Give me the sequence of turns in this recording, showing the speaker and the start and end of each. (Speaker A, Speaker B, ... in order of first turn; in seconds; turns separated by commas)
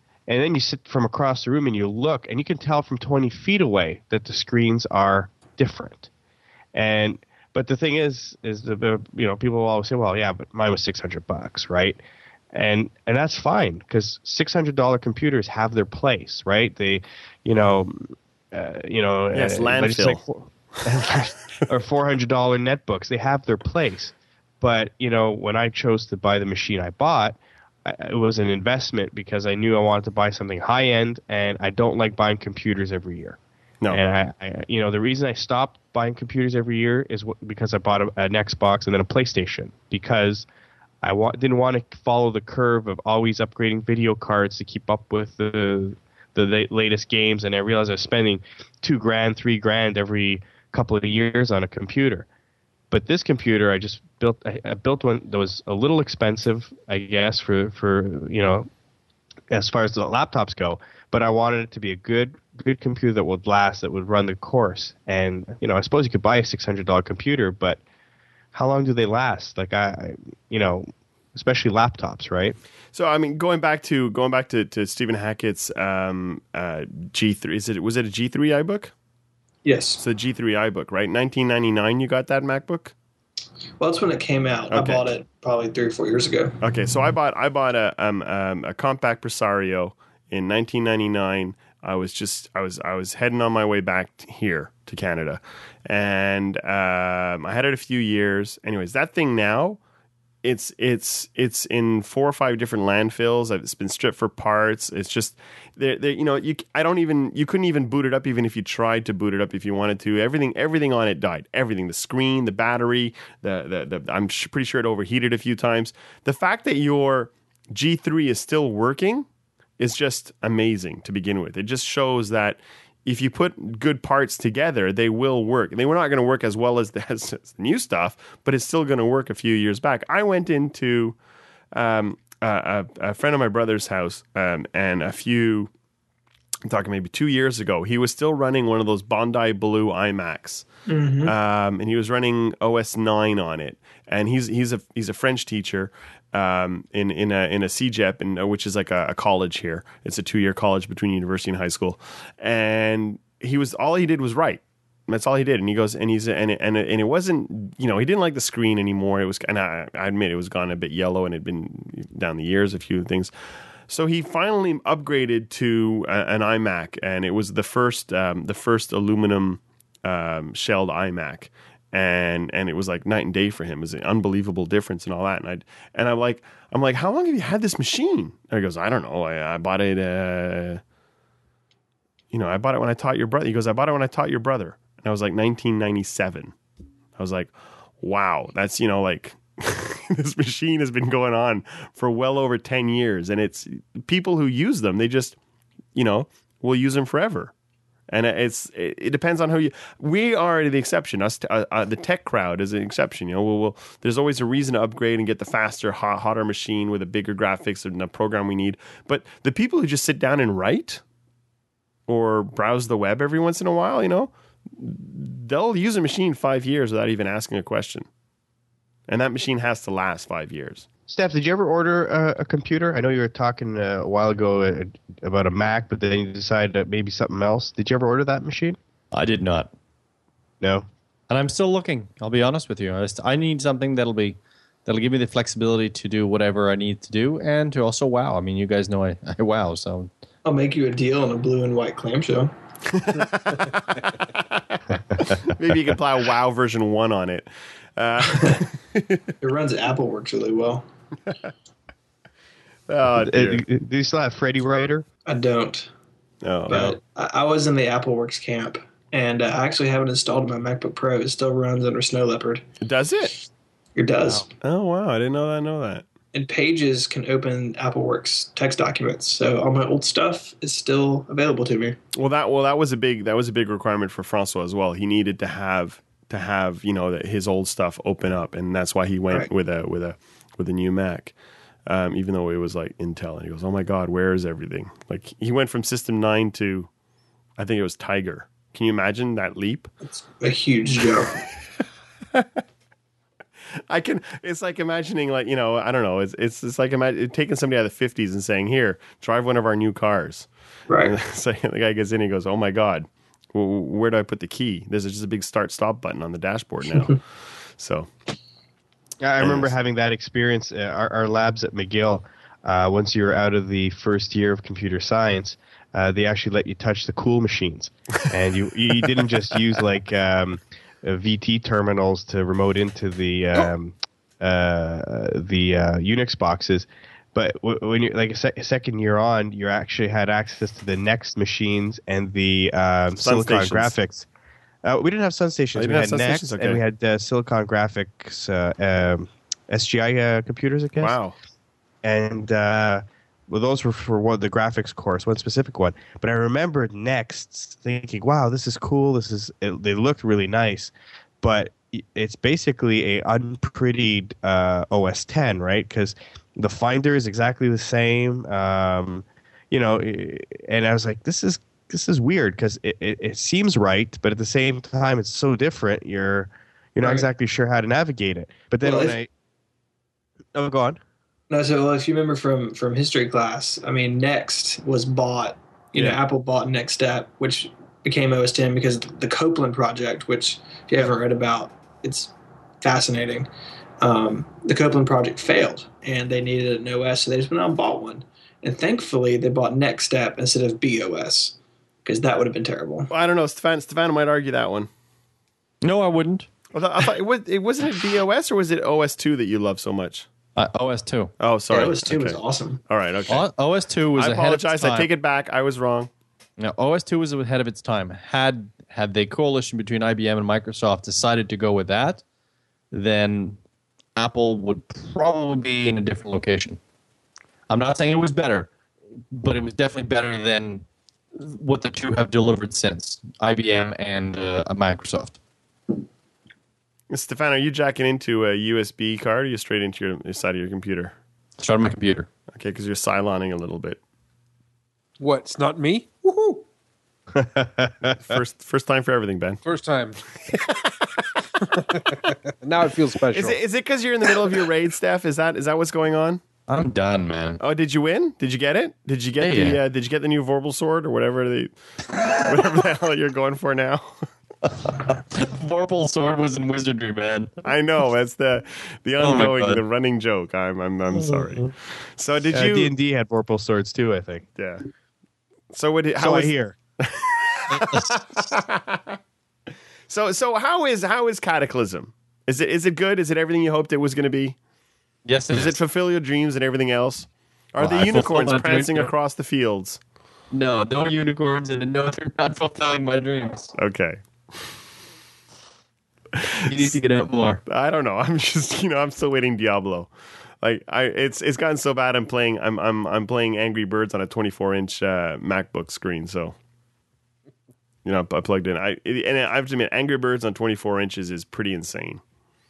Speaker A: 0.3-6.1, Speaker A: 6.7-12.0, Speaker A: 12.5-33.4, Speaker B: 19.3-20.2, Speaker A: 33.9-40.5, Speaker A: 41.0-52.2, Speaker A: 52.9-58.7, Speaker A: 59.5-67.8, Speaker A: 68.5-72.5, Speaker B: 72.9-78.9, Speaker C: 79.6-80.0, Speaker B: 80.0-82.9, Speaker C: 83.8-86.6, Speaker B: 84.7-85.1, Speaker B: 86.6-99.8, Speaker B: 100.4-119.3, Speaker B: 119.8-131.2, Speaker B: 131.7-135.7, Speaker B: 136.7-140.7, Speaker C: 140.9-141.3, Speaker B: 141.2-163.3, Speaker B: 163.9-180.8, Speaker B: 182.3-186.5, Speaker B: 187.2-195.3, Speaker B: 195.9-197.5, Speaker B: 198.1-211.0, Speaker B: 212.1-218.1, Speaker B: 219.1-220.8, Speaker A: 221.1-228.8, Speaker D: 229.1-229.7, Speaker A: 230.6-230.8, Speaker D: 231.3-240.1, Speaker C: 240.4-242.5, Speaker B: 242.9-249.2, Speaker C: 249.4-250.8, Speaker B: 252.9-253.6, Speaker A: 253.2-255.0, Speaker C: 255.3-255.9, Speaker B: 256.4-256.9, Speaker C: 256.7-262.6, Speaker B: 262.8-263.4, Speaker C: 263.9-264.5, Speaker B: 264.4-266.0, Speaker C: 266.3-272.0, Speaker B: 272.1-281.3, Speaker B: 281.9-286.9, Speaker B: 287.6-289.9, Speaker C: 290.1-291.3, Speaker B: 292.3-292.6, Speaker B: 293.9-307.2, Speaker C: 300.9-301.1, Speaker B: 307.8-308.1, Speaker A: 309.2-334.2, Speaker B: 309.4-309.7, Speaker B: 333.1-333.9, Speaker A: 334.8-341.1, Speaker B: 335.7-336.8, Speaker B: 341.0-341.3, Speaker A: 342.0-369.3, Speaker C: 367.0-367.2, Speaker C: 368.8-369.1, Speaker A: 370.5-371.0, Speaker C: 371.5-383.5, Speaker C: 384.0-393.1, Speaker B: 393.1-394.9, Speaker D: 395.8-396.5, Speaker B: 396.7-400.3, Speaker D: 400.6-401.3, Speaker B: 401.4-403.5, Speaker C: 401.7-402.8, Speaker D: 403.3-405.1, Speaker B: 404.2-406.1, Speaker D: 406.6-412.2, Speaker D: 412.9-413.6, Speaker D: 414.1-416.8, Speaker D: 417.7-418.7, Speaker D: 419.3-420.8, Speaker D: 421.3-425.4, Speaker B: 427.1-431.1, Speaker D: 431.6-432.3, Speaker B: 432.5-434.0, Speaker E: 435.2-436.6, Speaker A: 437.4-438.1, Speaker B: 438.1-439.6, Speaker E: 439.6-440.2, Speaker B: 440.4-441.2, Speaker E: 441.7-443.6, Speaker B: 443.3-446.4, Speaker D: 446.7-447.6, Speaker B: 447.6-454.1, Speaker D: 449.4-449.8, Speaker D: 454.6-457.6, Speaker B: 457.6-462.9, Speaker D: 459.2-459.8, Speaker A: 462.5-464.4, Speaker B: 464.6-464.8, Speaker B: 465.7-469.2, Speaker A: 466.2-466.8, Speaker D: 467.7-468.1, Speaker B: 470.1-474.6, Speaker D: 475.2-475.7, Speaker B: 475.5-480.0, Speaker D: 477.8-479.1, Speaker D: 480.5-483.7, Speaker B: 483.8-484.2, Speaker D: 486.7-487.6, Speaker B: 487.7-490.1, Speaker B: 490.6-496.5, Speaker B: 498.0-502.2